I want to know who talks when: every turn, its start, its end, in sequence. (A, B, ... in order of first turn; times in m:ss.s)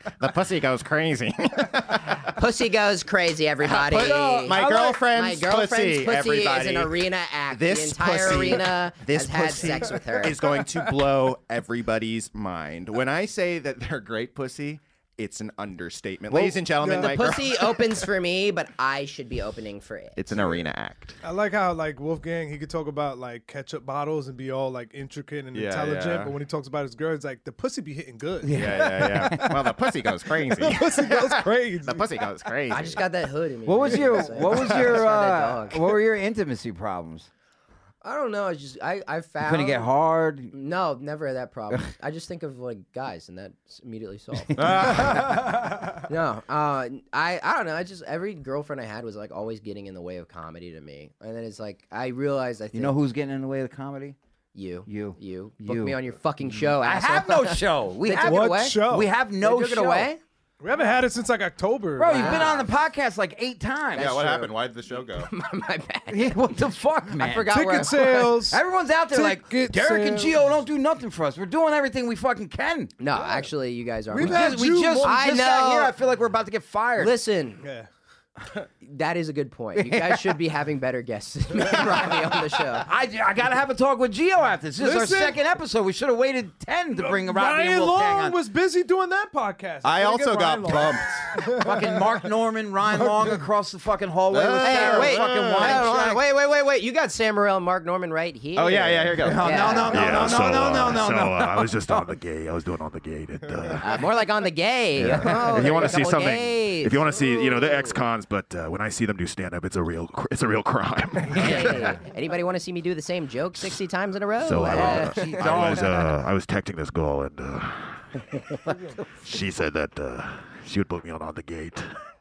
0:00.2-0:02.3 A
0:02.2-0:10.4 B
0:03.6-0:17.9 A
0:03.9-0:05.0 C
0:16.3-0:20.4 B
0:16.8-0:17.2 D
0:20.2-0:21.2 A
0:21.2-0:29.7 D
0:25.5-0:26.4 A
0:28.4-0:29.5 C
0:28.5-0:33.0 A
0:30.4-0:32.3 D
0:32.7-0:36.0 B
0:33.6-0:37.3 C
0:34.0-0:34.5 D
0:38.0-0:39.9 B
0:39.4-0:40.5 C
0:40.5-0:45.2 B
0:44.6-0:45.4 C
0:44.6-0:45.4 A
0:46.1-0:53.0 B
0:52.7-0:54.2 C
0:54.6-0:58.9 B
0:54.9-1:00.1 C
0:58.2-0:59.1 D
0:59.4-1:00.2 B
1:00.6-1:02.5 D
1:02.0-1:04.3 C
1:02.1-1:02.7 B
1:04.0-1:05.3 A
1:04.0-1:06.5 B
1:06.1-1:07.9 C
1:07.1-1:08.4 B
1:07.5-1:10.4 D
1:08.5-1:13.0 C
1:13.0-1:16.0 B
1:14.1-1:15.2 D
1:14.2-1:17.2 C
1:17.0-1:17.6 B
1:17.6-1:17.9 D
1:18.8-1:22.9 B
1:19.8-1:20.4 C
1:22.8-1:28.4 C
1:24.8-1:25.4 D
1:27.0-1:32.1 D
1:29.8-1:31.3 A
1:31.5-1:36.2 C
1:34.3-1:36.0 A
1:34.6-1:40.4 B
1:38.6-1:39.9 A
1:39.2-1:42.2 C
1:39.9-1:44.1 E
1:43.8-1:47.2 B
1:45.0-1:46.1 A
1:45.1-1:52.0 E
1:51.3-1:55.8 B
1:54.4-1:58.5 E
1:54.6-1:56.2 C
1:59.2-2:01.9 E